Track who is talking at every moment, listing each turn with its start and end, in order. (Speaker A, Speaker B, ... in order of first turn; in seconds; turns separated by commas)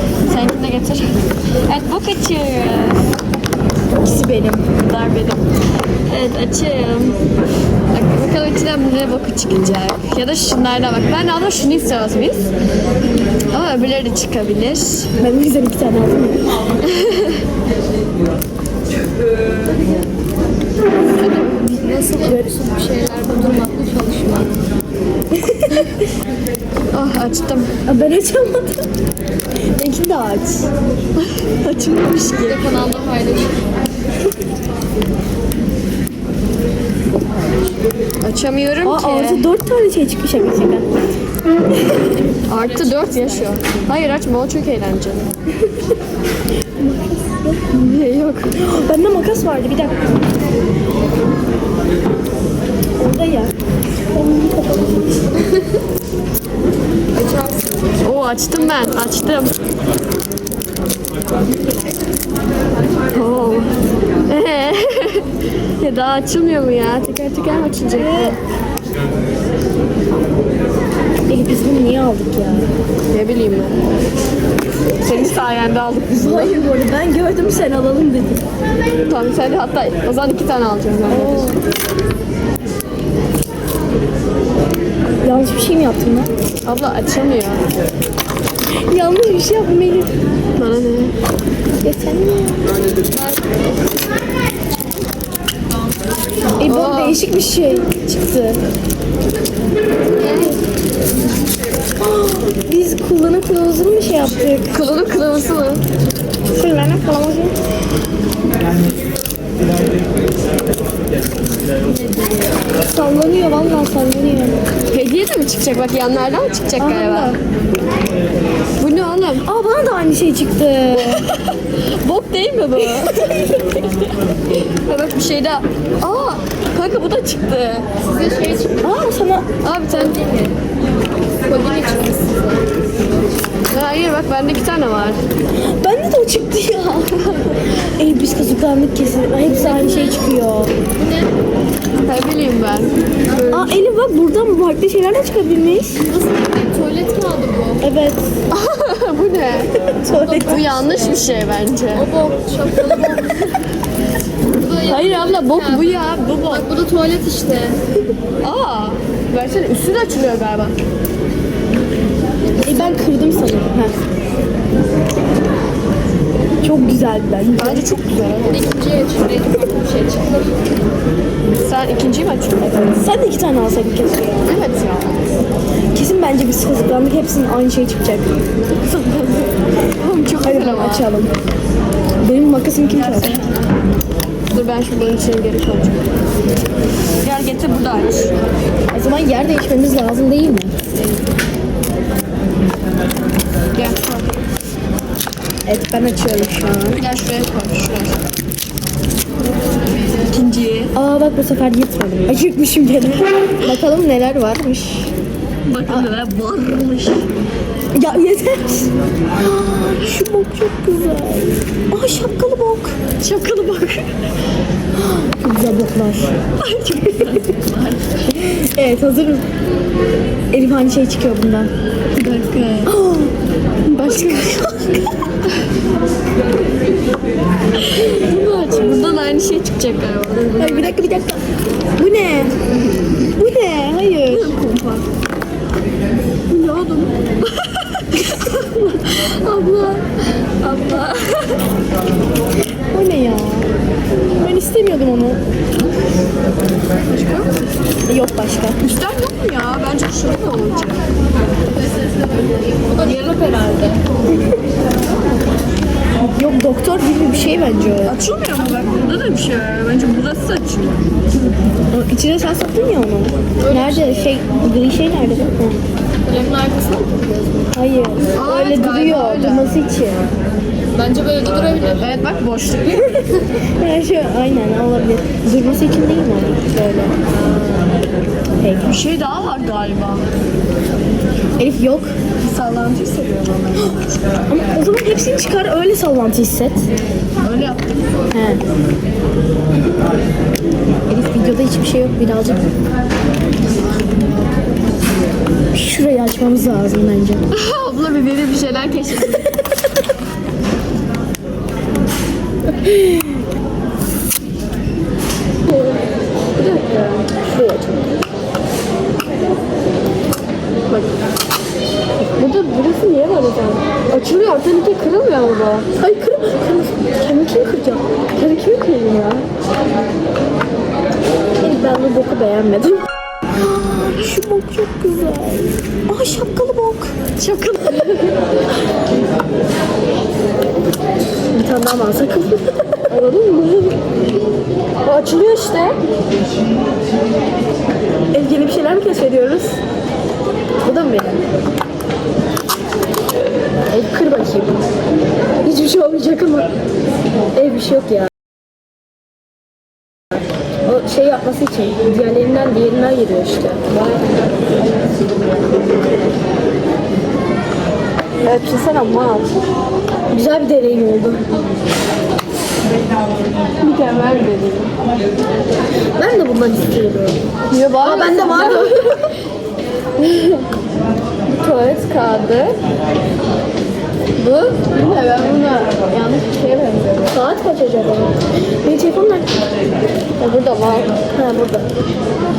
Speaker A: 0.3-3.1, Speaker B: 4.0-4.8, Speaker A: 4.8-5.5, Speaker A: 6.1-7.2, Speaker A: 7.9-12.4, Speaker A: 13.5-15.1, Speaker B: 15.2-16.6, Speaker A: 16.9-17.4, Speaker A: 21.1-21.8, Speaker C: 21.6-24.6, Speaker B: 25.3-26.0, Speaker A: 26.9-27.7, Speaker B: 27.9-28.9, Speaker B: 29.8-30.7, Speaker A: 31.2-32.7, Speaker C: 32.3-33.7, Speaker A: 38.2-39.5, Speaker B: 38.8-40.9, Speaker A: 42.5-45.3, Speaker C: 42.5-43.7, Speaker B: 46.8-47.7, Speaker A: 47.7-48.5, Speaker B: 48.6-50.2, Speaker B: 53.0-53.5, Speaker B: 54.1-55.3, Speaker C: 57.1-59.0, Speaker A: 58.0-59.6, Speaker A: 63.1-63.7, Speaker A: 64.3-68.4, Speaker B: 67.9-68.4, Speaker B: 71.3-72.7, Speaker A: 73.1-73.8, Speaker A: 75.0-76.7, Speaker B: 76.2-78.5, Speaker A: 79.1-81.6, Speaker B: 81.1-81.6, Speaker B: 85.2-86.3, Speaker A: 86.7-87.7, Speaker B: 88.9-90.1, Speaker A: 90.6-91.2, Speaker B: 91.8-92.6, Speaker C: 93.1-93.5, Speaker B: 96.6-98.6, Speaker A: 96.6-97.2, Speaker A: 100.2-100.5, Speaker B: 102.0-104.8, Speaker A: 104.7-105.8, Speaker B: 106.5-107.5, Speaker C: 111.9-112.5, Speaker B: 112.9-114.6, Speaker A: 114.9-117.4, Speaker B: 116.8-117.4, Speaker A: 118.8-119.5, Speaker B: 119.4-121.3, Speaker A: 120.9-123.5, Speaker B: 122.9-123.6, Speaker A: 124.5-127.9, Speaker C: 128.0-128.9, Speaker B: 128.8-129.5, Speaker A: 129.6-130.2, Speaker C: 129.9-130.6, Speaker C: 131.4-132.6, Speaker A: 133.7-135.2, Speaker B: 135.6-140.7, Speaker C: 139.5-140.3, Speaker C: 141.0-141.3, Speaker A: 142.1-143.7, Speaker B: 143.5-146.1, Speaker C: 146.1-147.8, Speaker B: 147.8-148.3, Speaker A: 148.5-149.9, Speaker B: 149.9-150.6, Speaker C: 150.0-151.3, Speaker A: 150.4-152.1, Speaker C: 151.9-153.5, Speaker C: 154.5-157.8, Speaker A: 154.8-156.7, Speaker A: 158.4-160.8, Speaker B: 162.6-164.0, Speaker B: 166.6-167.9, Speaker A: 167.6-168.7, Speaker C: 168.5-170.7, Speaker A: 171.6-173.0, Speaker B: 172.9-174.6, Speaker A: 174.4-175.2, Speaker B: 175.9-179.5, Speaker A: 180.0-181.1, Speaker B: 180.4-181.3, Speaker B: 182.2-183.4, Speaker A: 183.0-183.5, Speaker A: 184.5-186.1, Speaker A: 187.2-188.3, Speaker B: 188.9-190.7, Speaker A: 193.7-194.3, Speaker B: 195.7-197.0, Speaker A: 197.0-198.2, Speaker A: 200.2-200.9, Speaker B: 200.9-205.1, Speaker A: 205.7-207.3, Speaker B: 207.9-213.0, Speaker A: 213.2-214.1, Speaker B: 215.0-216.3, Speaker A: 216.6-218.3, Speaker B: 218.3-219.5, Speaker B: 220.5-221.7, Speaker A: 222.2-222.9, Speaker B: 222.8-223.3, Speaker B: 223.9-225.1, Speaker A: 223.9-224.8, Speaker A: 227.8-231.1, Speaker B: 230.6-231.4, Speaker B: 232.0-232.5, Speaker B: 233.3-234.6, Speaker A: 234.3-235.1, Speaker A: 236.5-241.6, Speaker B: 242.9-245.4, Speaker A: 247.1-247.5, Speaker B: 248.1-248.8, Speaker A: 248.8-251.1, Speaker C: 251.9-254.0, Speaker A: 253.0-253.8, Speaker B: 256.3-258.2, Speaker A: 258.1-261.1, Speaker B: 261.9-265.8, Speaker C: 263.6-264.4, Speaker C: 266.2-267.7, Speaker B: 267.7-270.3, Speaker A: 268.3-269.8, Speaker C: 270.9-272.2, Speaker A: 271.9-273.3, Speaker B: 273.6-277.2, Speaker B: 278.6-279.0, Speaker A: 278.8-280.3, Speaker B: 281.6-282.1, Speaker A: 282.4-284.0, Speaker B: 284.5-286.9, Speaker A: 287.4-287.8, Speaker B: 288.3-288.6, Speaker B: 291.1-292.7, Speaker B: 295.7-297.4, Speaker A: 297.5-299.6, Speaker B: 302.8-303.2, Speaker A: 305.7-306.0, Speaker A: 306.6-308.0, Speaker A: 310.9-311.2, Speaker A: 312.2-315.9, Speaker B: 316.0-319.5, Speaker B: 321.6-323.1, Speaker B: 323.6-327.1, Speaker A: 327.4-328.4, Speaker B: 331.5-333.1, Speaker A: 333.1-334.0, Speaker A: 335.0-336.0, Speaker B: 338.3-339.8, Speaker A: 340.9-341.4, Speaker B: 343.9-344.8, Speaker B: 345.6-346.7, Speaker B: 347.5-348.3, Speaker B: 350.9-353.9, Speaker A: 353.9-355.2, Speaker A: 358.4-359.5, Speaker B: 360.3-361.5, Speaker A: 363.8-364.9, Speaker B: 366.2-367.4, Speaker A: 367.7-369.3, Speaker B: 368.0-369.2, Speaker A: 370.2-370.7, Speaker A: 371.6-372.8, Speaker A: 374.4-377.4, Speaker B: 377.3-379.5, Speaker A: 380.4-381.2, Speaker B: 381.3-381.9